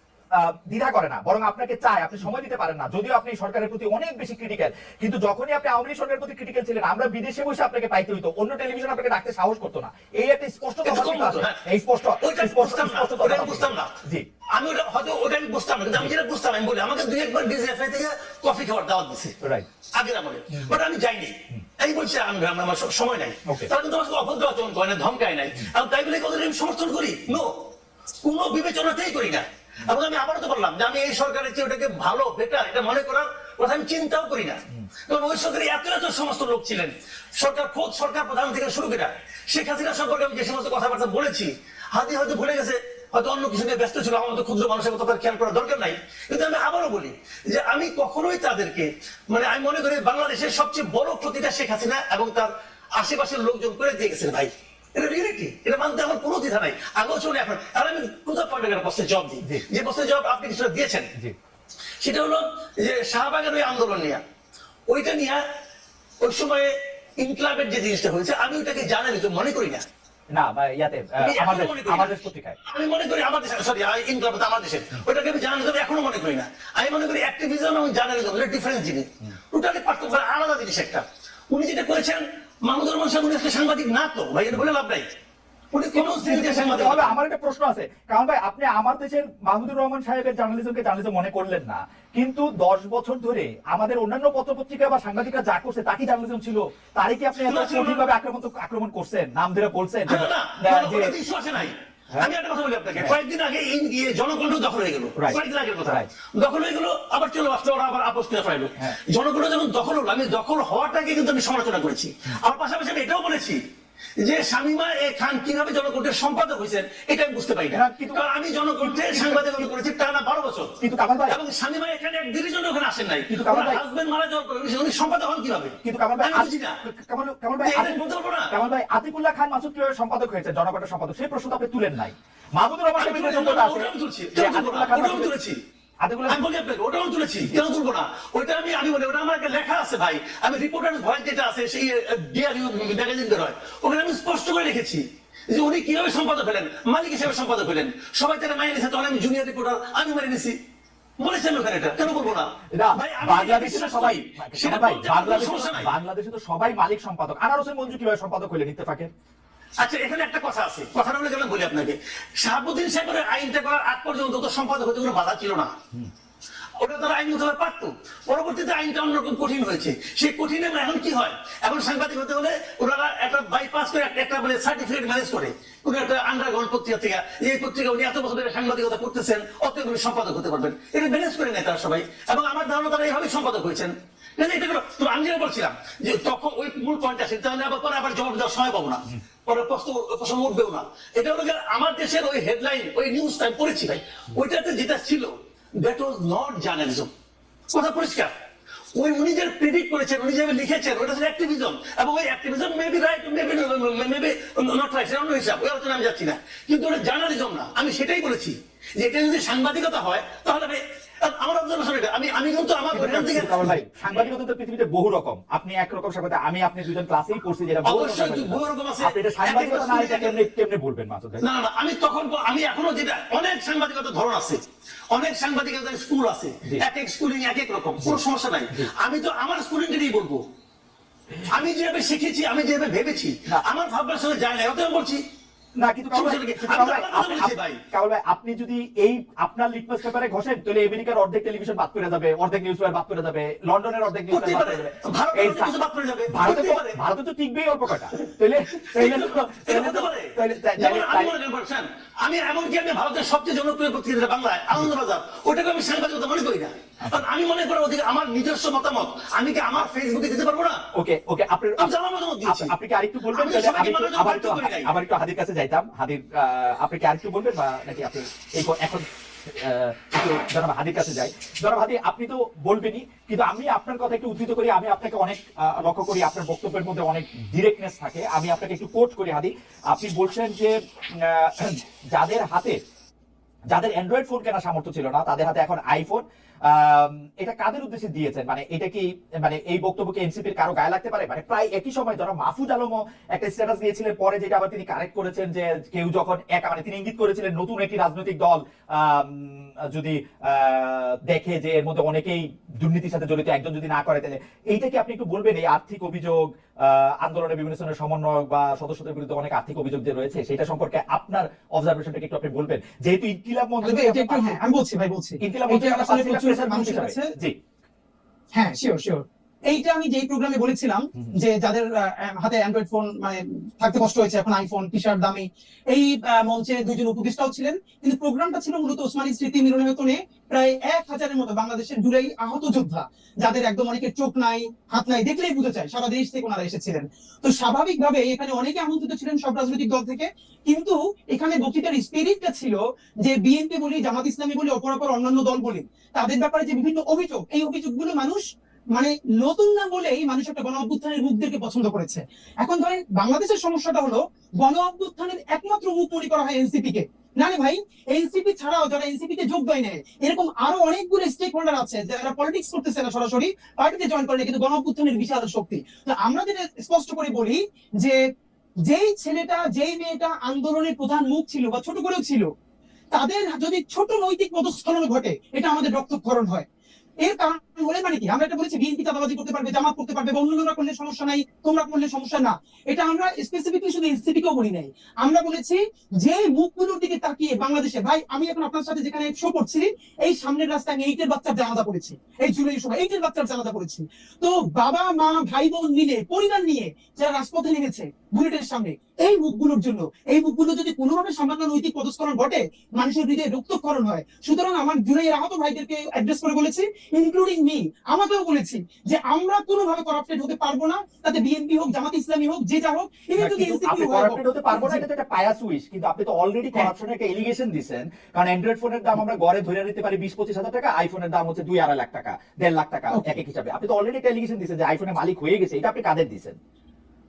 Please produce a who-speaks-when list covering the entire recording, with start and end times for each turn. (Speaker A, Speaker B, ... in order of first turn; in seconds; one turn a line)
Speaker A: 0.3-14.3
Speaker B: 10.8-11.6
Speaker B: 12.2-13.9
Speaker B: 14.5-19.4
Speaker A: 19.4-19.7
Speaker B: 19.9-27.7
Speaker A: 20.5-20.8
Speaker B: 28.2-61.1
Speaker B: 62.0-64.2
Speaker B: 64.9-65.4
Speaker B: 66.2-69.8
Speaker A: 70.3-72.6
Speaker B: 71.2-72.1
Speaker B: 72.6-85.1
Speaker B: 85.7-87.2
Speaker A: 85.9-101.1
Speaker B: 97.4-98.0
Speaker B: 100.1-113.6
Speaker A: 105.2-106.1
Speaker B: 114.2-126.8
Speaker A: 117.7-118.2
Speaker A: 118.8-119.7
Speaker A: 120.8-121.4
Speaker A: 123.3-123.8
Speaker A: 125.8-135.4
Speaker B: 127.6-128.5
Speaker B: 133.0-135.6
Speaker A: 136.0-136.4
Speaker B: 136.3-150.6
Speaker B: 151.2-155.9
Speaker A: 152.7-159.1
Speaker B: 159.8-165.7
Speaker B: 166.8-197.1
Speaker B: 197.7-198.3
Speaker B: 198.9-213.7
Speaker A: 212.9-221.4
Speaker B: 217.8-220.4
Speaker B: 221.4-230.4
Speaker A: 228.0-228.9
Speaker B: 231.4-235.2
Speaker A: 235.8-245.7
Speaker B: 236.1-237.8
Speaker B: 244.3-247.0
Speaker A: 246.3-251.3
Speaker B: 248.3-260.8
Speaker A: 260.9-261.9
Speaker B: 261.8-262.7
Speaker A: 262.4-282.8
Speaker B: 263.3-264.9
Speaker A: 283.7-314.6
Speaker C: 313.8-317.3
Speaker A: 315.4-317.6
Speaker C: 318.5-348.4
Speaker C: 348.9-368.2
Speaker C: 368.9-372.5
Speaker C: 373.1-376.7
Speaker C: 377.2-415.0
Speaker A: 413.4-426.6
Speaker C: 423.1-423.4